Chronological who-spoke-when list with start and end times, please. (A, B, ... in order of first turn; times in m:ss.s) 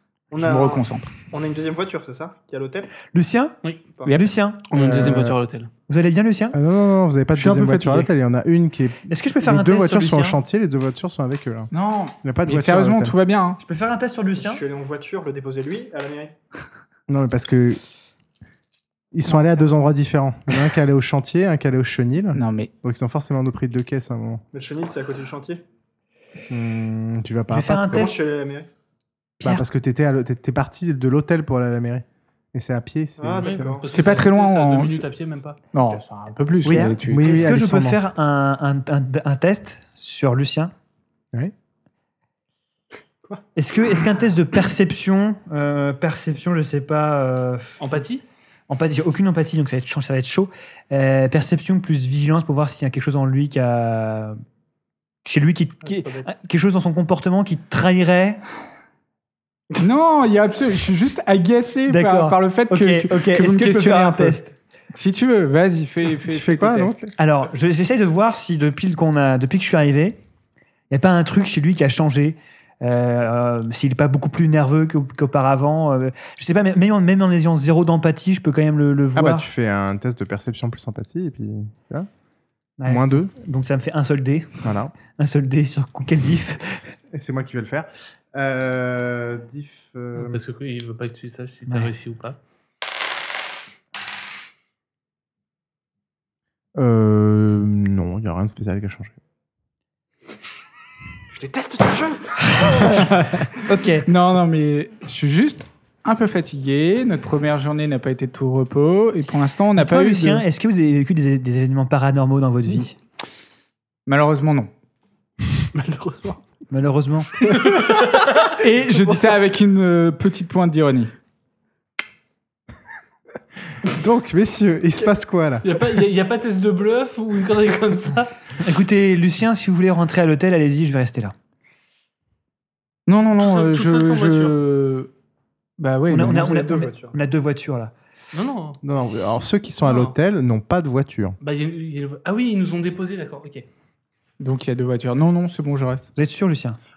0:00.3-0:02.9 A
0:00.4-0:01.2 B
0:03.1-0:04.7 C
0:04.7-0:05.7 D
0:04.7-0:05.4 B
0:05.9-0:06.6 C
0:06.5-0:11.7 E
0:07.4-0:08.1 B
0:09.1-0:10.4 C
0:11.7-0:13.6 B
0:12.2-0:13.2 E
0:13.6-0:14.6 C
0:14.4-0:16.3 A
0:17.1-0:17.8 E
0:19.1-0:24.4 E
0:22.3-0:22.7 B
0:24.5-0:25.6 A
0:26.5-0:28.1 E
0:27.5-0:28.2 C
0:27.8-0:28.7 A
0:29.4-0:33.8 E
0:33.2-0:34.1 A
0:33.4-0:35.6 D
0:33.9-0:35.0 B
0:35.7-0:37.3 B
0:36.6-0:40.7 C
0:36.7-0:38.0 E
0:43.6-0:47.8 C
0:47.8-0:48.2 D
0:48.7-0:54.4 C
0:55.2-0:58.4 C
0:55.8-0:56.3 A
0:59.8-1:04.4 B
1:01.9-1:04.6 C
1:04.9-1:07.0 B
1:06.2-1:07.1 E
1:07.2-1:10.2 C
1:10.9-1:19.5 C
1:19.2-1:22.1 E
1:22.8-1:26.8 C
1:22.8-1:23.3 E
1:24.6-1:25.0 E
1:27.1-1:30.4 E
1:30.2-1:32.4 D
1:36.8-1:39.2 E
1:41.3-1:42.9 A
1:42.9-1:43.5 B
1:43.6-1:44.1 C
1:44.0-1:50.4 B
1:49.8-1:53.0 C
1:54.1-1:54.7 B
1:55.8-1:56.4 D
1:56.7-1:57.3 C
1:57.5-1:58.6 D
1:58.6-2:01.1 B
2:03.8-2:05.7 E
2:05.6-2:08.4 D
2:08.6-2:11.4 C
2:13.1-2:15.1 B
2:13.4-2:14.6 D
2:15.8-2:16.7 B
2:16.1-2:17.9 C
2:16.4-2:17.2 A
2:18.3-2:18.8 D
2:18.8-2:21.4 E
2:19.8-2:20.2 D
2:21.4-2:23.7 D
2:24.4-2:26.1 B
2:26.2-2:26.8 C